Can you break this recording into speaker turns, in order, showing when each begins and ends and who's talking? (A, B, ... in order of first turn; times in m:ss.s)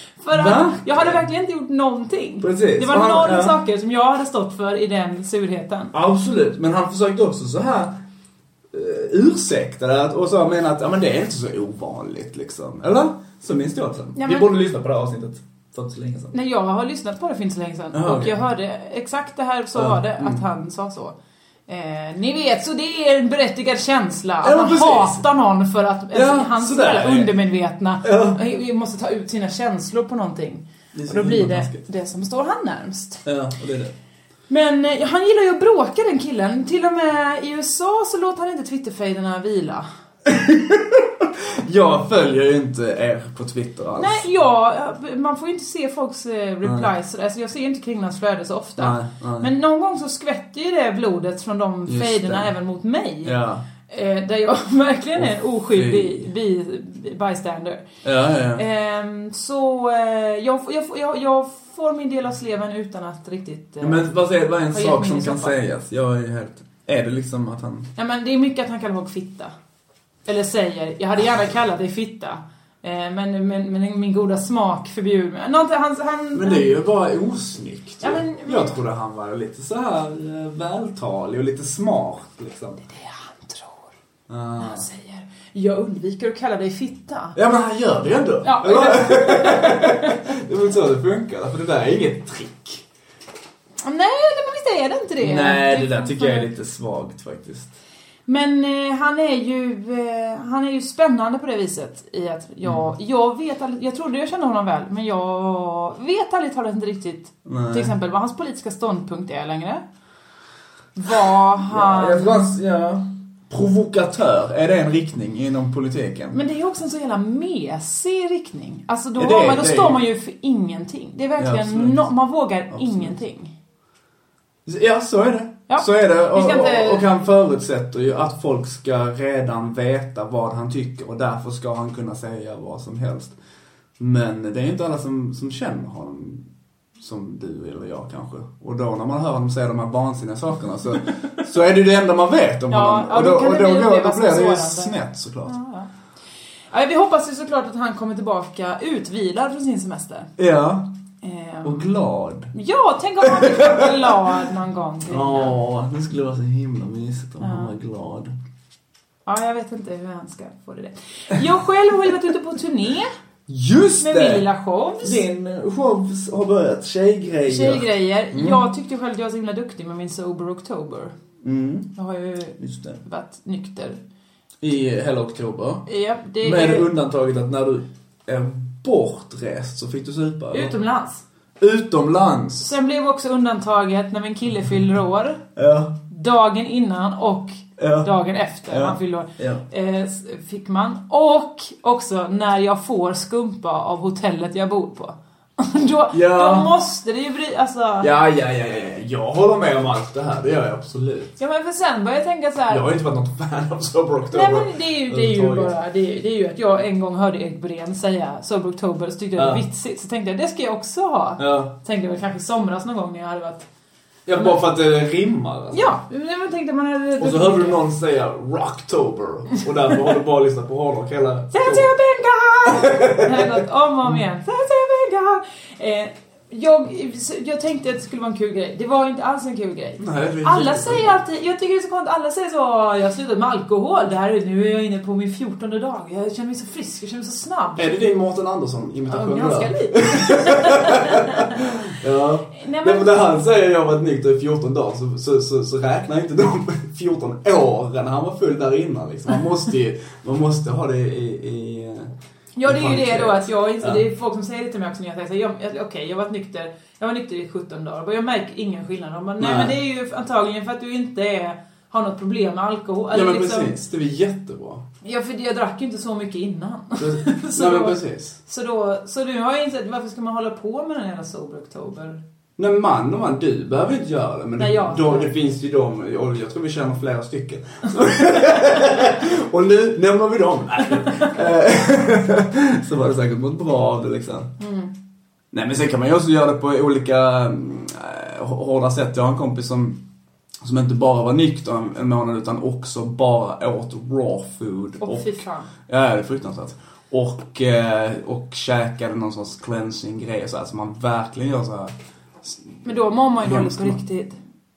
0:00.2-0:05.9 A
0:00.3-0:01.2 B
0:02.4-0:03.6 B
0:05.9-0:08.0 B
0:08.7-0:16.4 B
0:14.2-0:14.5 A
0:16.3-0:21.2 A
0:17.9-0:18.4 B
0:19.8-0:20.4 B
0:21.7-0:33.2 A
0:24.4-0:25.2 B
0:26.1-0:27.3 B
0:28.0-0:28.4 B
0:30.9-0:31.9 B
0:33.2-0:33.9 B
0:34.5-0:39.9 A
0:40.3-0:44.3 B
0:44.0-0:53.4 A
0:46.6-0:46.9 B
0:48.8-0:49.5 B
0:51.9-0:52.5 B
0:53.2-0:53.6 B
0:53.9-0:57.8 A
0:55.2-0:56.3 B
0:58.0-0:58.6 B
0:58.5-1:04.1 A
1:03.8-1:07.9 B
1:04.6-1:05.6 A
1:08.0-1:09.5 A
1:10.3-1:16.8 A
1:16.3-1:22.8 B
1:18.0-1:18.8 A
1:22.9-1:23.9 A
1:24.3-1:24.8 B
1:24.6-1:27.4 A
1:27.4-1:32.8 B
1:28.4-1:30.3 A
1:33.8-1:36.5 A
1:35.2-1:37.7 B
1:38.3-1:49.8 A
1:47.4-1:47.9 B
1:51.0-1:52.5 A
1:51.7-1:56.4 B
1:56.3-2:03.5 A
1:59.2-2:00.0 B
2:01.4-2:02.0 B
2:02.7-2:03.2 B
2:04.7-2:13.4 B
2:05.7-2:07.1 A
2:14.0-2:16.5 B
2:17.0-2:25.6 B
2:22.7-2:25.9 A
2:26.7-2:30.3 A
2:30.4-2:30.9 B
2:31.2-2:31.9 A
2:31.6-2:32.5 B
2:32.5-2:35.6 A
2:33.2-2:34.4 B
2:35.1-2:38.3 B
2:37.4-2:37.7 A
2:39.3-2:43.1 A
2:43.5-2:44.4 B
2:44.0-2:45.2 A
2:45.0-2:48.6 B
2:47.5-2:51.1 A
2:51.4-2:51.9 B
2:52.0-2:54.0 A
2:52.6-2:53.0 B
2:54.6-2:55.9 B
2:55.9-2:56.9 A
2:56.4-3:00.7 B
3:00.5-3:01.2 A
3:01.6-3:02.8 B
3:02.6-3:05.4 A
3:05.6-3:06.0 B
3:06.1-3:18.1 A
3:07.8-3:08.2 B
3:08.7-3:09.6 B
3:16.1-3:16.7 B
3:18.0-3:21.3 B
3:21.4-3:22.9 A
3:22.7-3:25.7 B
3:24.3-3:33.7 A
3:29.4-3:29.6 B
3:31.4-3:31.7 B
3:34.3-3:36.0 B
3:34.3-3:34.6 A
3:35.7-3:37.8 A
3:37.2-3:41.9 B
3:41.5-3:58.0 A
3:42.6-3:44.2 B
3:50.0-3:51.2 B
3:57.8-4:12.1 B
3:59.1-4:01.6 A
4:02.5-4:03.2 A
4:12.6-4:23.8 A
4:12.6-4:14.0 B
4:19.4-4:19.8 B
4:23.1-4:24.8 B
4:25.0-4:32.2 A
4:27.0-4:28.4 B
4:32.6-4:44.5 B
4:34.6-4:35.4 A
4:44.6-4:44.9 A
4:45.5-4:50.0 B
4:50.6-5:02.8 B
4:55.0-4:55.7 A
5:02.8-5:04.4 A
5:03.4-5:04.0 B